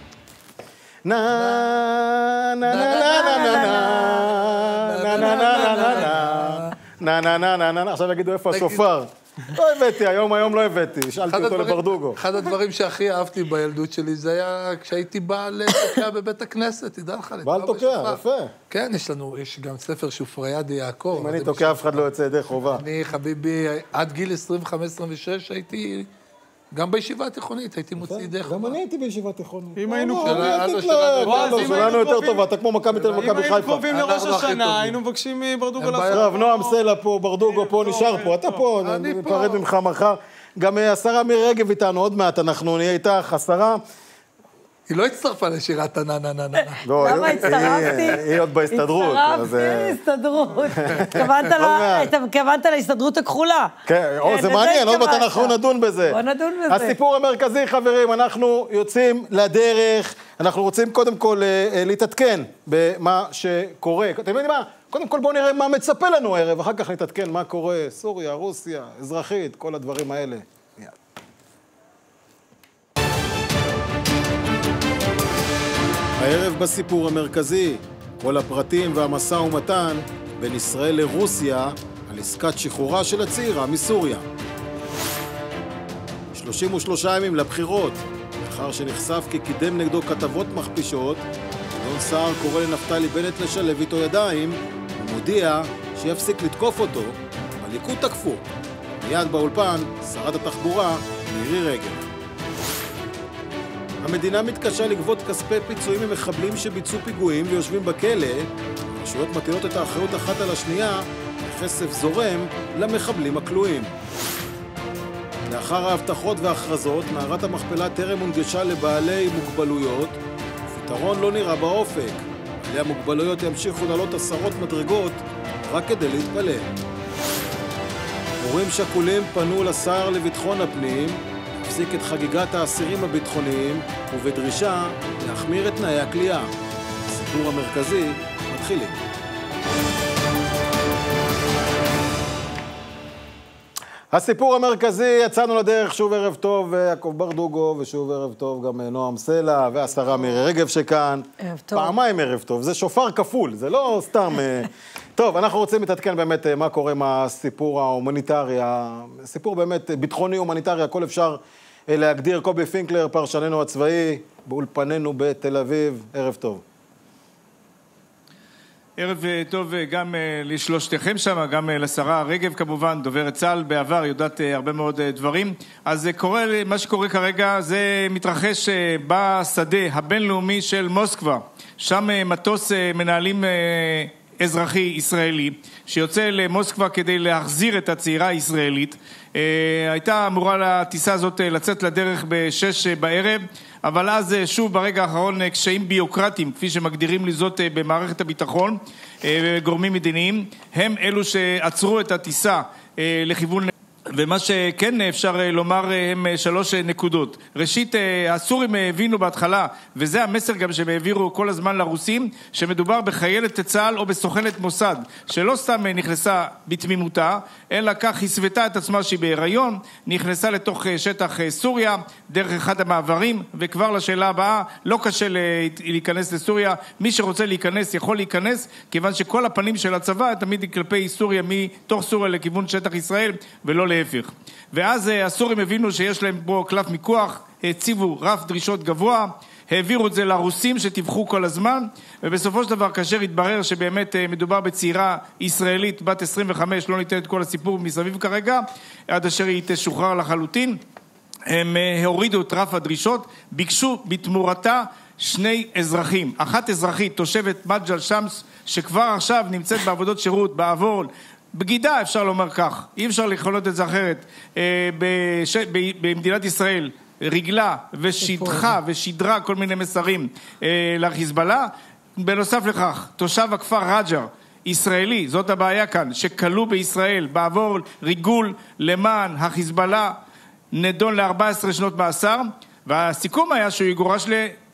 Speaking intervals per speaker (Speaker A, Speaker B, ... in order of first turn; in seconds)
Speaker A: 1.1-12.2, 17.4-18.5, 21.1-22.8, 28.0-33.9, 36.1-43.8, 46.8-50.0, 50.8-52.1, 53.9-71.0, 76.2-84.2, 86.3-98.4, 99.0-102.1, 104.0-113.9, 115.5-126.7, 128.4-136.5, 137.1-139.0, 144.1-166.6
Speaker B: 1.4-1.6, 2.7-6.8, 8.5-8.8, 11.3-21.9, 22.8-26.1, 26.7-28.8, 30.2-32.0, 33.0-33.4, 33.9-35.0, 35.8-36.3, 38.8-39.6, 44.9-48.1
Speaker C: 3.1-4.0, 47.0-53.7, 54.2-55.5, 56.1-57.0, 151.4-152.0
Speaker D: 29.8-30.6, 31.2-32.4, 33.1-36.8, 37.4-38.6
Speaker E: 169.0-250.8, 251.5-280.2, 280.7-284.6